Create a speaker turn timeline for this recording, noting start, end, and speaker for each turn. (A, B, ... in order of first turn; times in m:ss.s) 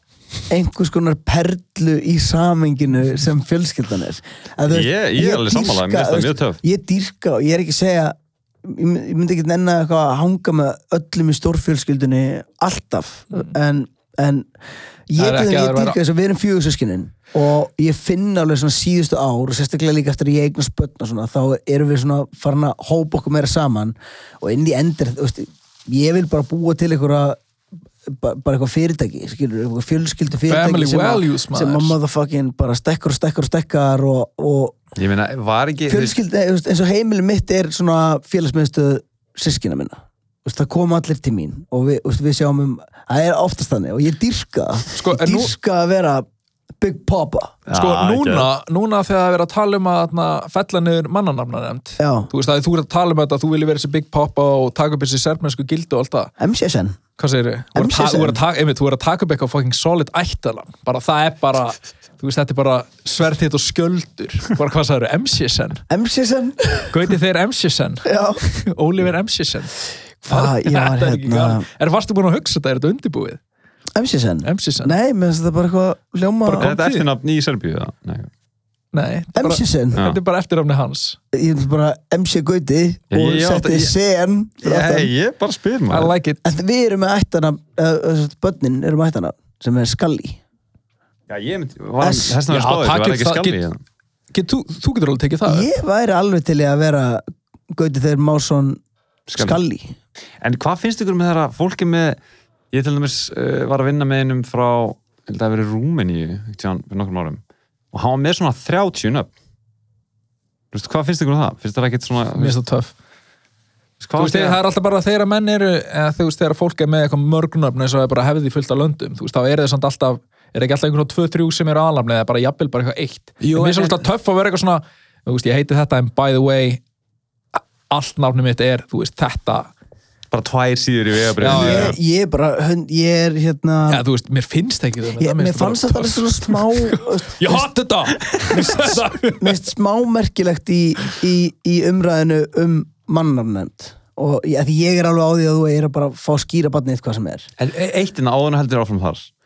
0:00.5-0:14.5 A
0:04.7-0:06.6 B
0:15.1-0:27.4 A
0:15.2-0:16.0 C
0:28.0-0:34.8 A
0:30.4-0:31.9 C
0:35.0-0:36.2 B
0:35.9-0:46.2 A
0:44.9-0:45.5 C
0:46.8-0:47.6 A
0:47.7-0:48.5 B
0:47.7-0:56.3 C
0:52.0-0:52.3 A
0:56.4-0:57.0 A
0:57.2-1:05.8 C
0:57.7-0:58.4 A
1:05.9-1:06.9 A
1:06.9-1:09.8 C
1:08.0-1:08.4 A
1:10.2-1:11.6 A
1:10.3-1:13.4 C
1:13.9-1:16.7 A
1:14.4-1:14.9 C
1:16.4-1:17.0 C
1:16.6-1:18.3 B
1:18.9-1:21.2 C
1:19.3-1:20.0 A
1:21.3-1:25.1 A
1:23.1-1:23.9 B
1:24.6-1:26.1 B
1:25.9-1:26.4 C
1:26.4-1:30.4 A
1:31.3-1:33.8 B
1:32.0-1:32.4 A
1:32.5-1:33.6 C
1:34.3-1:35.7 C
1:35.5-1:38.8 A
1:39.3-1:39.6 B
1:39.4-1:40.0 A
1:40.4-1:42.2 B
1:42.7-1:47.4 B
1:47.9-1:49.3 B
1:50.7-1:52.6 B
1:52.4-1:52.9 C
1:54.0-1:54.6 B
1:54.2-2:06.8 C
2:03.4-2:04.0 B
2:07.9-2:09.7 C
2:10.3-2:12.0 B
2:11.4-2:11.9 C
2:11.4-2:14.0 A
2:13.9-2:19.5 C
2:15.2-2:17.7 A
2:18.5-2:27.5 A
2:27.6-2:29.3 B